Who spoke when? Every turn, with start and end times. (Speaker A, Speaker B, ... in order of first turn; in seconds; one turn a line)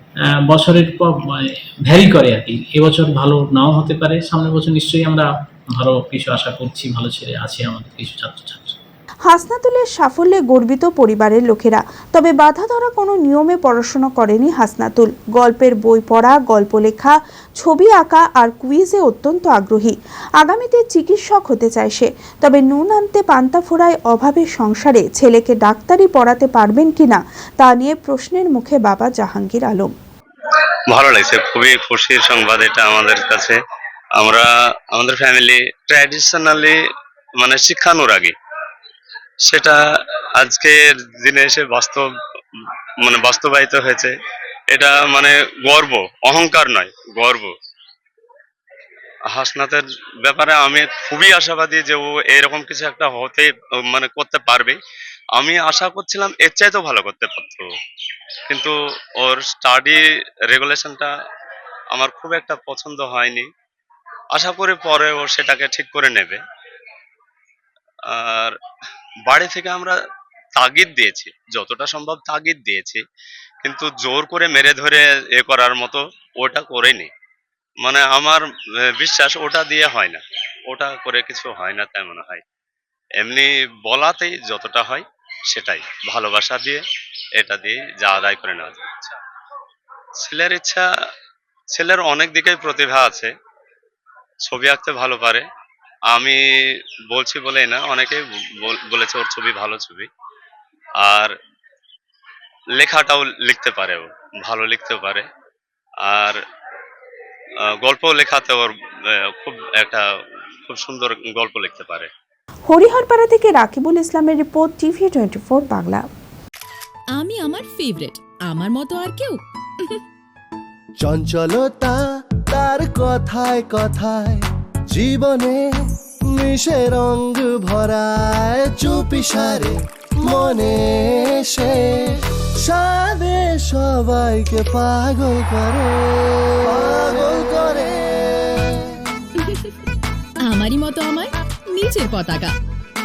Speaker A: 0.2-8.8
Speaker B: 9.2-29.9
Speaker C: 30.9-33.6
Speaker C: 34.2-36.8
Speaker C: 37.4-38.3
Speaker C: 39.4-39.8
Speaker C: 40.4-42.1
Speaker C: 43.0-44.1
Speaker C: 44.7-47.5
Speaker C: 49.3-54.8
Speaker C: 55.3-57.7
Speaker C: 58.5-61.1
Speaker C: 61.9-63.5
Speaker C: 64.3-66.4
Speaker C: 68.1-68.6
Speaker C: 69.2-70.0
Speaker C: 70.5-73.0
Speaker C: 73.6-77.1
Speaker C: 77.8-78.4
Speaker C: 79.0-82.4
Speaker C: 83.2-86.8
Speaker C: 87.4-89.1
Speaker C: 90.2-90.9
Speaker C: 91.7-93.3
Speaker C: 94.5-95.5
Speaker C: 96.1-96.4
Speaker C: 97.1-100.1
Speaker C: 101.0-101.3
Speaker C: 102.8-105.2
Speaker C: 106.1-106.4
Speaker C: 107.8-108.7
Speaker C: 109.4-110.0
Speaker C: 110.7-112.1
Speaker B: 112.7-116.1
Speaker D: 117.1-119.9
Speaker E: 121.0-122.0
Speaker E: 122.5-125.6
Speaker E: 126.2-138.9
Speaker D: 139.4-139.7
Speaker D: 140.4-142.6